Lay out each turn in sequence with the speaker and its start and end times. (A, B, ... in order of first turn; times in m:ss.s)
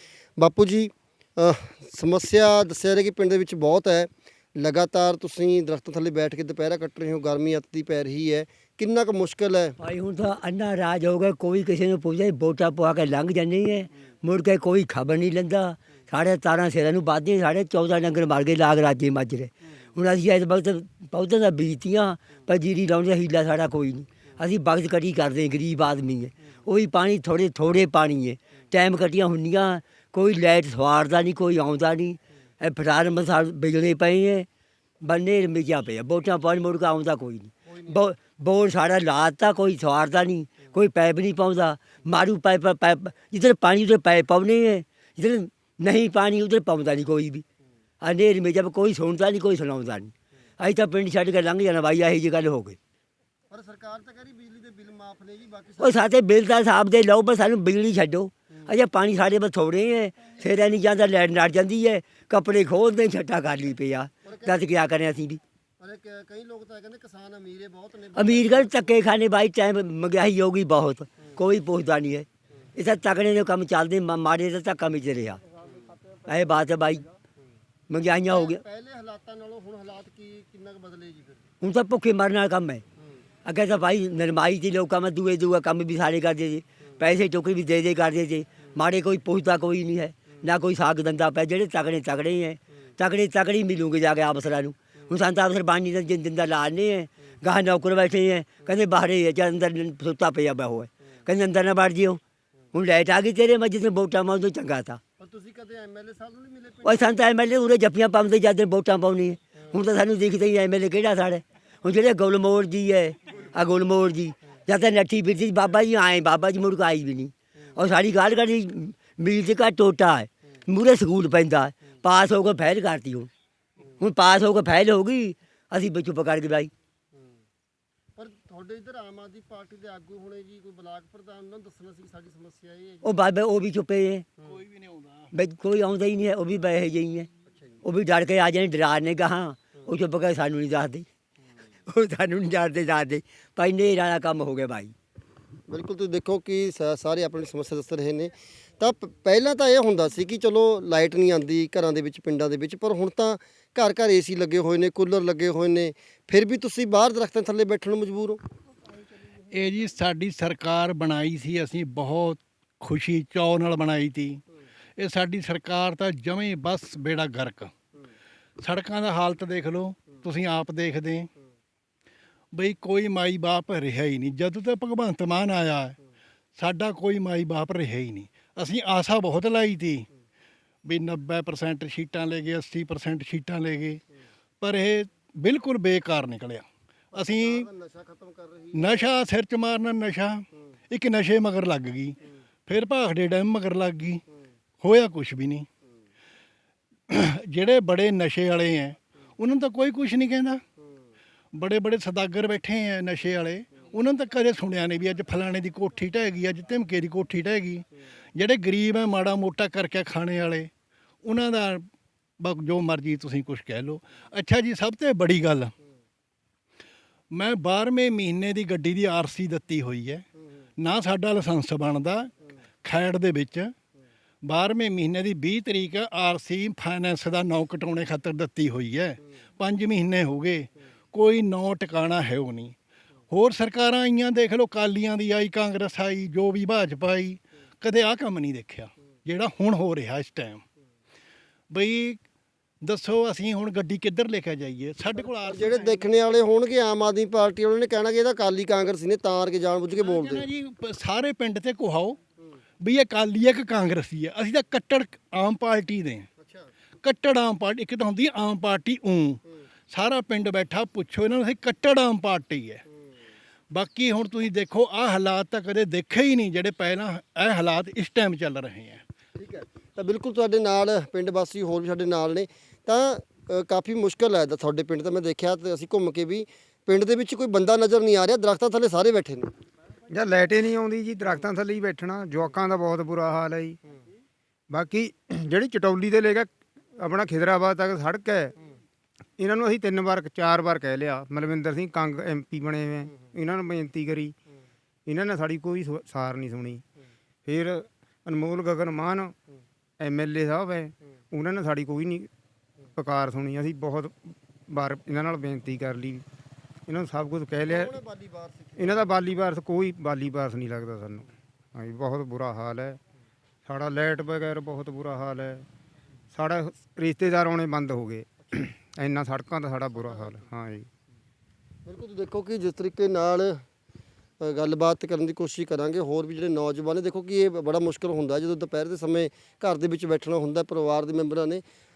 0:00.4-0:09.8 A
0:09.8-0:34.5 B
0:35.0-0:47.4 B
0:37.6-0:38.0 A
0:48.0-0:52.8 B
0:53.5-0:56.0 A
0:55.8-1:05.4 B
1:04.2-1:04.7 A
1:05.8-1:09.0 A
1:08.2-1:15.4 B
1:16.2-1:17.0 B
1:17.9-1:18.6 B
1:18.0-1:21.5 A
1:21.6-1:22.8 B
1:23.4-1:42.2 B
1:42.7-1:45.0 B
1:45.2-1:47.2 A
1:46.8-2:03.3 B
2:04.0-2:06.7 B
2:08.2-2:13.0 A
2:13.0-2:14.2 B
2:14.4-2:15.3 C
2:15.3-2:17.3 B
2:17.8-2:21.0 B
2:21.9-2:24.9 B
2:25.7-2:38.4 A
2:39.5-2:44.4 C
2:45.0-2:47.7 C
2:48.6-2:51.3 C
2:52.5-2:56.0 C
2:56.6-3:00.0 C
3:00.8-3:04.0 C
3:04.6-3:07.7 C
3:07.1-3:09.1 A
3:08.7-3:14.2 C
3:14.8-3:15.7 C
3:17.1-3:20.6 C
3:21.5-3:27.8 C
3:28.4-3:30.7 C
3:31.2-3:31.8 C
3:32.4-3:35.7 C
3:37.3-3:40.2 C
3:40.8-3:42.3 C
3:42.8-3:43.7 C
3:44.4-3:52.7 C
3:53.3-4:00.6 C
4:01.7-4:02.2 C
4:02.8-4:06.0 C
4:05.1-4:10.4 A
4:10.0-4:12.2 C
4:12.8-4:16.2 C
4:16.4-4:16.7 A
4:17.0-4:19.4 C
4:19.9-4:22.8 C
4:23.7-4:29.0 C
4:29.4-4:39.5 A
4:40.1-4:43.8 D
4:44.7-4:48.5 D
4:49.4-4:54.3 D
4:55.1-4:56.8 D
4:57.5-4:59.3 D
5:00.0-5:02.3 D
5:03.0-5:04.2 D
5:04.7-5:06.2 D
5:06.9-5:07.9 D
5:07.6-5:09.1 A
5:08.8-5:13.0 D
5:13.6-5:15.6 D
5:16.3-5:20.9 D
5:21.8-5:23.6 A
5:24.4-5:31.6 A